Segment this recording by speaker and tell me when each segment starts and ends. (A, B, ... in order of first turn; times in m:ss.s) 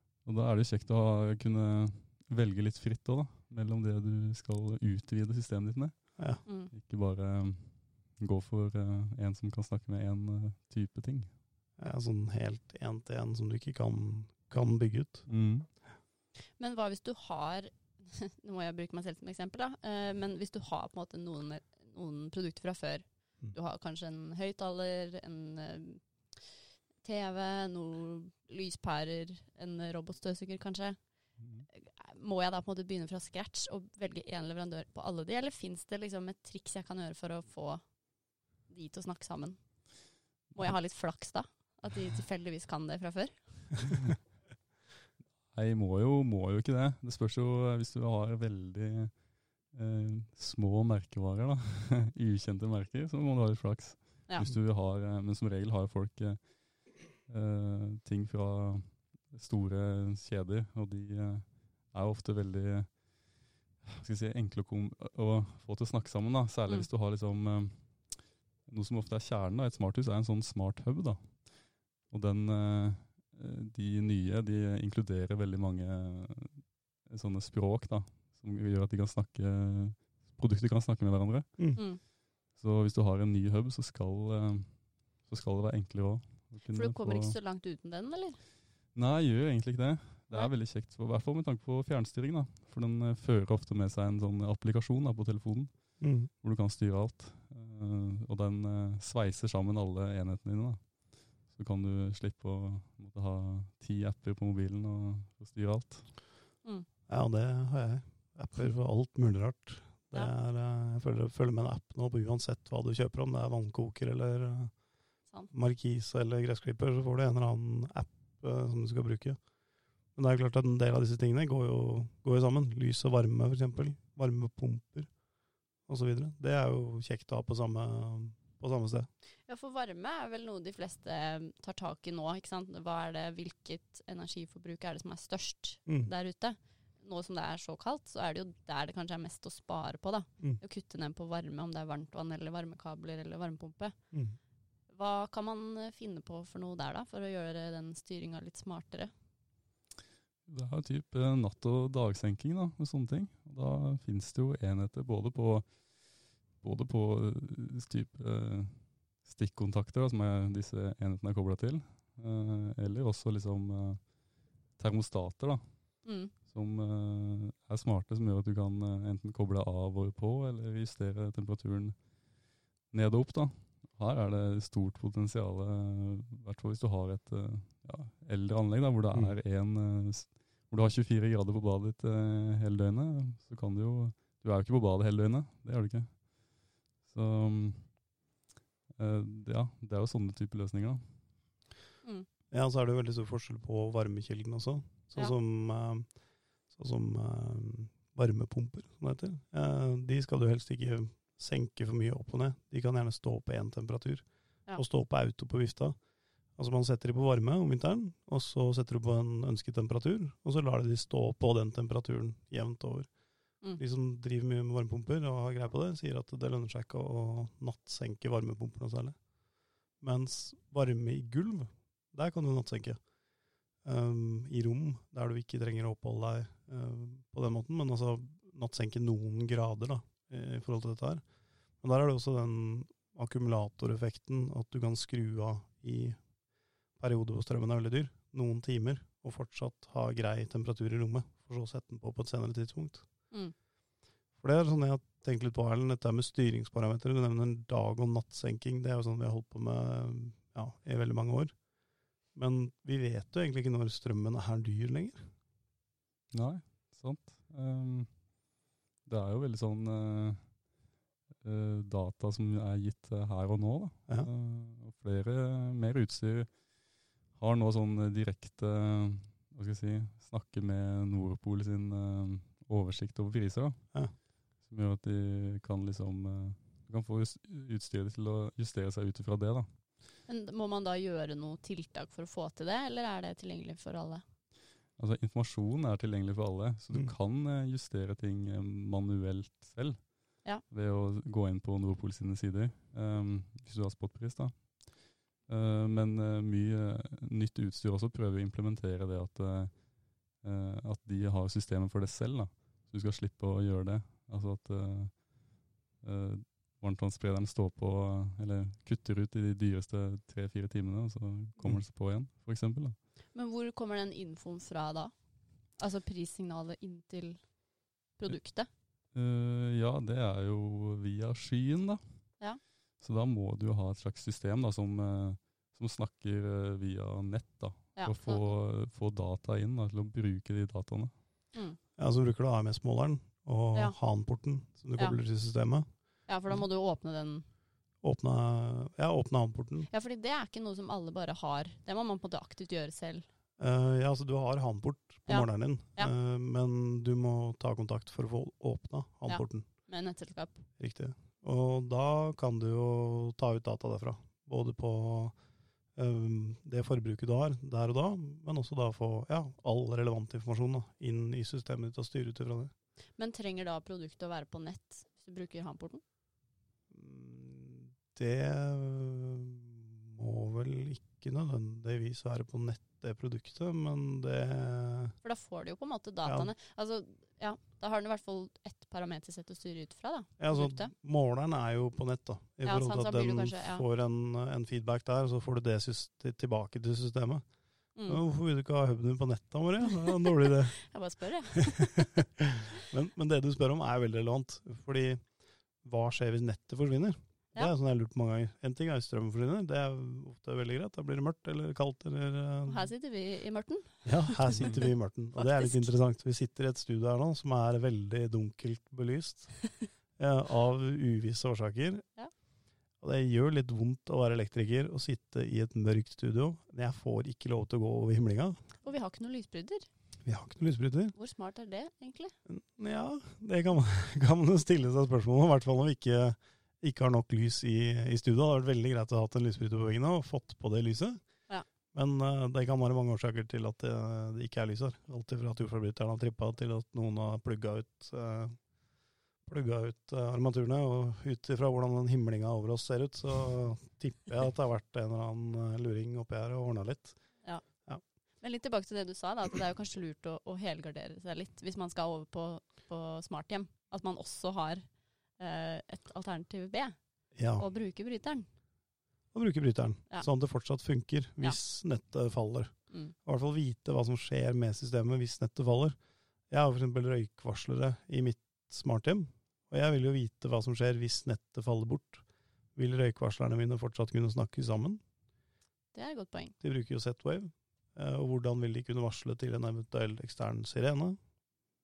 0:00.2-0:06.1 A
0:06.5-0:06.7 B
0:06.7-0:11.3 A
0:11.8-0:15.3 C
0:15.3-0:15.7 A
0:16.6-0:31.0 B
0:31.4-0:31.7 A
0:31.7-0:37.8 B
0:38.7-0:39.6 B
0:40.5-0:44.0 B
0:45.5-0:49.1 A
0:49.7-0:56.4 A
0:57.3-1:02.9 A
1:03.8-1:11.4 A
1:12.1-1:21.6 A
1:22.6-1:24.7 A
1:25.2-1:27.4 A
1:26.7-1:28.4 B
1:29.0-1:35.7 A
1:36.0-1:36.3 C
1:36.4-1:40.8 A
1:41.5-1:46.1 A
1:47.1-1:54.7 C
1:55.5-1:59.4 C
2:00.2-2:05.1 C
2:05.9-2:09.1 C
2:09.5-2:24.0 B
2:24.9-2:29.1 B
2:30.5-2:35.7 A
2:36.6-2:44.0 A
2:44.8-2:45.6 A
2:46.0-2:46.3 B
2:46.5-2:52.0 A
2:52.9-3:06.1 A
3:07.1-3:07.9 A
3:09.0-3:11.0 A
3:12.5-3:16.1 C
3:16.7-3:26.0 C
3:26.6-3:33.1 C
3:33.8-3:39.2 C
3:40.0-3:43.0 C
3:43.8-3:51.2 C
3:51.8-3:56.2 C
3:57.0-4:03.1 C
4:04.4-4:11.5 C
4:12.4-4:15.3 C
4:16.3-4:18.1 A
4:19.1-4:20.4 A
4:21.4-4:26.5 A
4:27.4-4:33.8 A
4:34.6-4:39.7 A
4:40.3-4:44.2 B
4:45.0-4:50.1 A
4:50.7-4:54.7 A
4:55.5-4:59.7 A
5:00.4-5:05.2 A
5:06.0-5:13.0 A
5:13.4-5:15.1 B
5:15.8-5:17.4 B
5:18.2-5:18.7 B
5:19.1-5:22.0 A
5:23.0-5:31.1 A
5:28.0-5:28.4 B
5:32.0-5:35.9 C
5:36.3-5:37.5 B
5:38.0-5:39.9 C
5:39.9-5:43.3 B
5:43.6-5:49.7 C
5:45.3-5:46.1 B
5:49.3-5:50.6 B
5:50.8-5:55.3 C
5:56.0-6:02.7 C
6:03.2-6:06.0 B
6:06.9-6:15.2 C
6:15.2-6:20.9 B
6:16.2-6:16.5 C
6:20.4-6:27.4 C
6:22.6-6:23.8 B
6:28.1-6:30.8 C
6:30.0-6:32.2 B
6:31.7-6:35.2 C
6:35.8-6:42.9 C
6:42.7-6:44.8 B
6:44.0-6:49.6 C
6:45.4-6:45.9 B
6:50.2-6:52.0 C
6:53.0-6:58.6 C
6:58.8-6:59.9 B
7:00.3-7:01.1 C
7:01.2-7:02.4 B
7:02.5-7:11.2 C
7:11.9-7:18.6 C
7:19.5-7:27.2 C
7:28.4-7:34.8 B
7:35.4-7:37.0 B
7:37.4-7:37.6 C
7:37.6-7:38.5 B
7:39.3-7:42.7 C
7:42.9-7:43.2 B
7:43.2-7:46.0 C
7:46.5-7:52.2 C
7:52.8-7:55.0 C
7:55.9-7:56.6 B
7:56.6-8:01.2 C